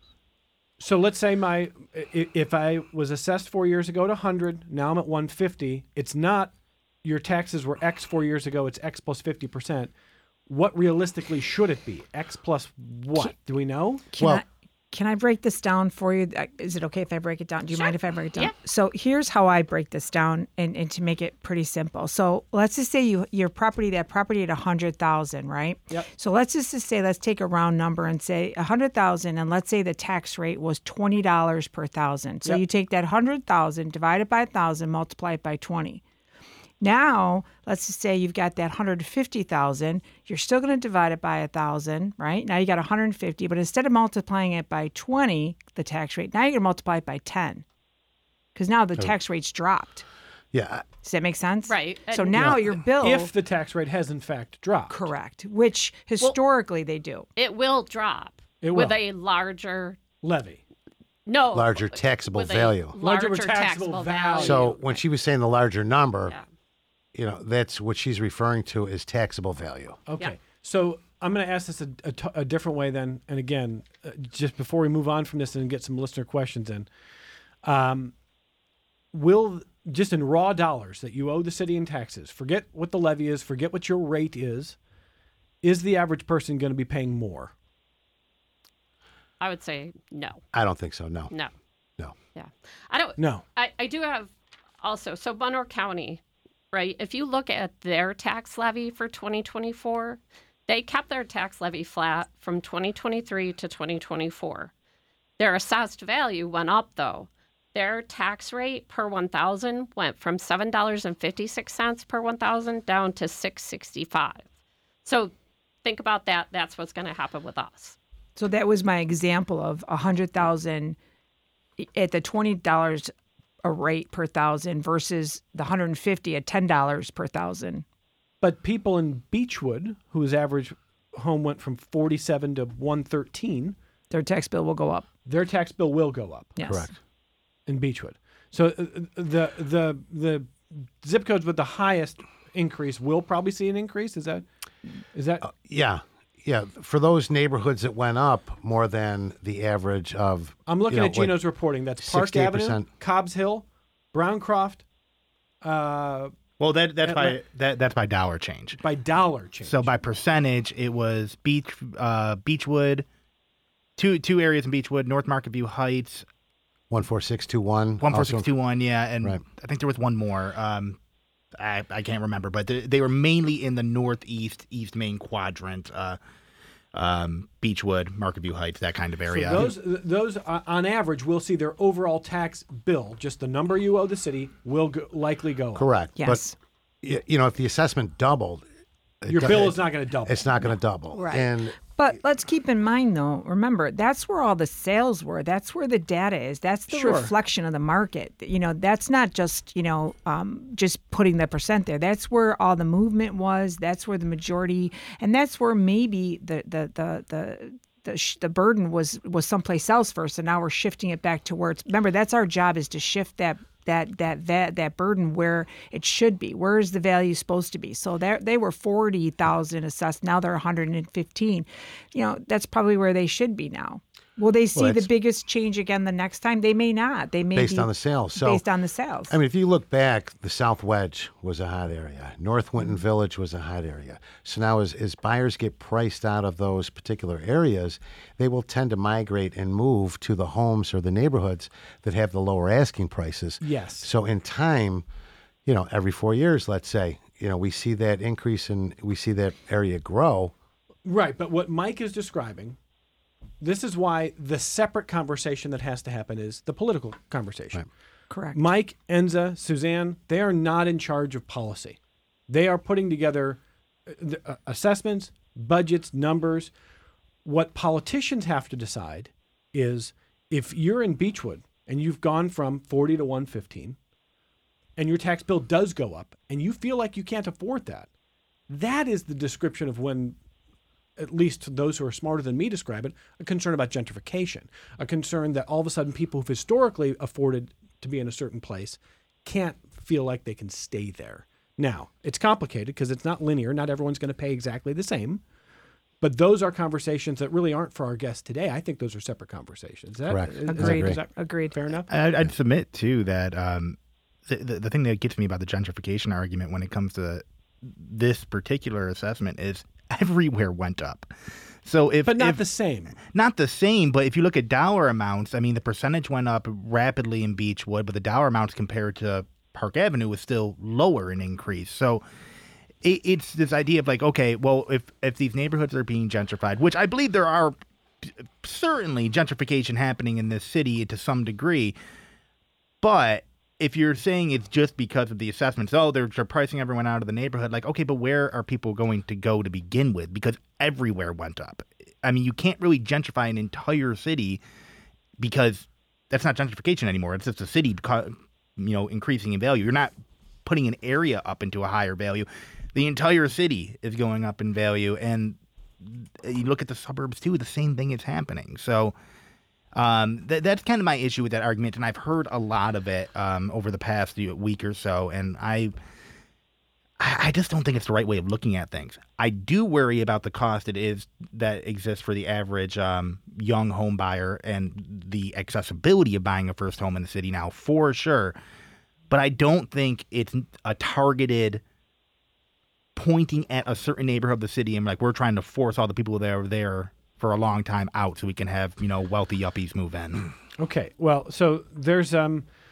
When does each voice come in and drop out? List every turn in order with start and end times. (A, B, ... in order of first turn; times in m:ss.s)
0:00.8-0:06.5 A
0:07.0-0:09.9 A
0:10.5-0:14.1 A
0:14.1-0:36.0 B
0:14.2-0:14.4 C
0:17.7-0:18.5 D
0:36.8-0:47.6 B
0:48.6-0:50.0 B
0:50.5-0:50.9 C
0:51.0-0:53.3 B
0:51.7-0:52.6 D
0:52.4-0:52.7 C
0:53.0-0:55.1 A
0:54.9-0:57.3 B
0:57.4-1:00.0 D
0:58.6-0:59.0 A
1:00.2-1:00.6 A
1:01.2-1:04.8 D
1:01.5-1:02.9 C
1:03.0-1:04.7 A
1:04.4-1:06.4 C
1:07.1-1:10.0 C
1:10.1-1:16.9 A
1:17.6-1:18.1 A
1:19.1-1:24.8 A
1:25.6-1:27.5 A
1:29.4-1:30.4 D
1:30.5-1:31.3 C
1:32.4-1:36.2 D
1:33.2-1:33.4 A
1:36.7-1:44.7 D
1:45.4-1:54.4 D
1:55.0-1:55.3 D
1:55.8-1:58.0 D
1:58.4-2:01.0 B
2:01.8-2:03.1 B
2:03.6-2:07.8 B
2:08.4-2:13.8 A
2:14.1-2:15.1 B
2:15.2-2:16.6 A
2:16.6-2:16.9 B
2:16.6-2:16.9 C
2:17.7-2:25.5 A
2:25.4-2:31.4 C
2:30.7-2:34.8 A
2:32.0-2:32.9 C
2:35.6-2:36.3 A
2:36.6-2:38.8 E
2:37.0-2:37.4 A
2:38.8-2:40.0 A
2:39.6-2:43.1 E
2:44.0-2:46.3 E
2:46.9-2:48.5 C
2:48.0-2:51.0 E
2:51.6-2:56.2 E
2:56.9-2:59.7 E
2:59.3-3:05.9 A
3:05.7-3:06.4 C
3:06.2-3:06.6 B
3:07.0-3:08.6 C
3:09.2-3:11.8 C
3:09.3-3:10.5 A
3:11.1-3:49.4 B
3:16.9-3:17.3 A
3:44.7-3:45.1 C
3:47.5-3:48.6 C
3:49.3-4:05.0 C
4:03.6-4:04.1 A
4:05.7-4:10.5 C
4:11.0-4:12.8 A
4:13.6-4:17.9 A
4:18.3-4:18.6 B
4:18.5-4:26.7 A
4:27.4-4:34.0 A
4:35.0-4:38.1 A
4:38.7-4:40.4 A
4:41.2-4:55.4 A
4:56.2-5:02.1 A
5:00.3-5:01.2 C
5:00.7-5:01.7 B
5:02.1-5:11.3 E
5:11.8-5:12.6 E
5:12.3-5:13.2 A
5:13.2-5:22.2 E
5:23.0-5:32.0 E
5:33.0-5:44.6 E
5:45.4-5:50.1 E
5:50.6-5:59.1 E
6:00.0-6:05.9 E
6:07.2-6:18.6 E
6:19.3-6:21.8 E
6:23.2-6:30.5 E
6:30.8-6:32.7 A